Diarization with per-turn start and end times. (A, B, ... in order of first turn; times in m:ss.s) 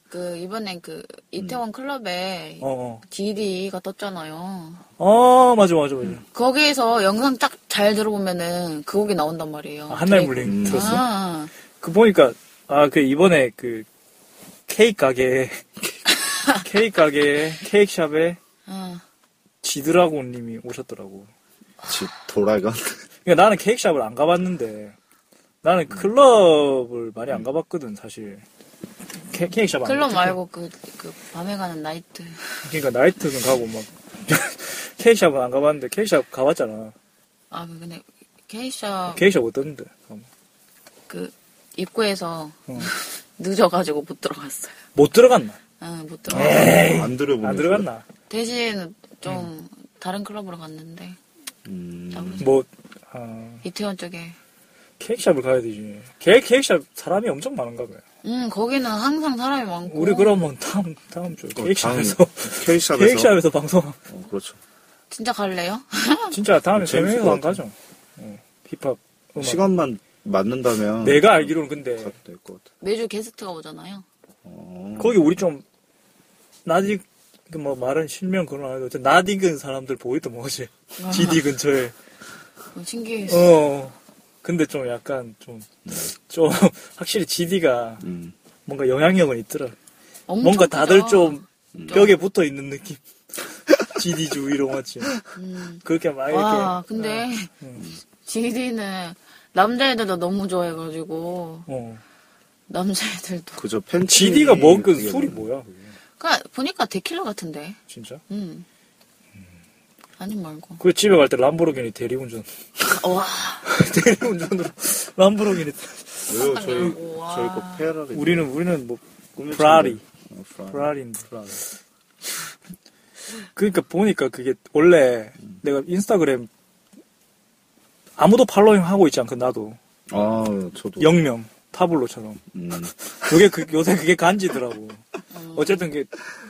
0:00.1-0:04.8 A
0:02.6-0:03.0 B
0:05.0-0:06.2 B
0:06.3-0:11.5 A
0:09.9-0:11.0 B
0:10.4-0:11.0 C
0:11.8-0:13.9 B
0:14.7-0:15.6 B
0:16.6-0:18.4 B
0:18.7-0:19.0 A
0:19.6-0:21.3 B
0:21.9-0:23.0 C
0:23.2-0:24.9 B
0:25.6-0:28.4 B
0:29.3-0:30.4 B
0:29.8-0:32.6 A
0:32.6-0:36.9 B
0:37.5-0:39.2 A
0:39.1-0:40.3 B
0:41.1-0:44.8 A
0:44.9-0:45.6 B
0:45.8-0:46.6 A
0:46.3-0:47.9 C
0:46.3-0:48.0 B
0:48.3-0:51.2 A
0:51.6-0:52.4 C
0:52.1-0:52.6 A
0:52.4-0:53.6 B
0:53.6-0:54.4 A
0:55.0-0:58.0 B
0:58.2-1:00.4 A
0:59.9-1:04.0 B
1:01.5-1:03.4 C
1:04.1-1:04.6 C
1:05.1-1:06.4 A
1:06.3-1:09.6 B
1:06.7-1:07.6 C
1:09.4-1:12.7 C
1:11.0-1:12.1 B
1:12.8-1:14.0 A
1:14.4-1:15.3 C
1:15.0-1:15.6 B
1:16.6-1:21.9 B
1:21.0-1:21.4 A
1:22.7-1:23.6 A
1:23.3-1:28.0 B
1:25.8-1:26.1 C
1:28.0-1:28.3 C
1:28.6-1:29.7 B
1:30.3-1:32.1 A
1:30.4-1:33.0 B
1:31.7-1:32.0 C
1:33.7-1:35.2 B
1:35.3-1:37.5 A
1:35.8-1:37.8 B
1:38.2-1:41.7 A
1:41.7-1:42.0 B
1:42.7-1:43.6 A
1:43.6-1:45.8 C
1:44.0-1:45.7 B
1:46.2-1:47.8 A
1:47.9-1:48.2 B
1:48.3-1:48.6 A
1:50.2-1:50.8 A
1:50.8-1:52.5 B
1:52.8-1:53.7 A
1:53.7-1:56.0 B
1:56.3-1:58.5 C
1:56.3-1:57.9 A
1:58.1-2:00.0 B
1:59.4-2:01.6 C
2:00.7-2:01.3 B
2:03.6-2:06.5 B
2:08.2-2:09.8 B
2:10.1-2:11.1 C
2:11.0-2:12.4 B
2:12.5-2:12.9 C
2:13.2-2:15.0 B
2:15.3-2:15.8 A
2:15.5-2:16.1 B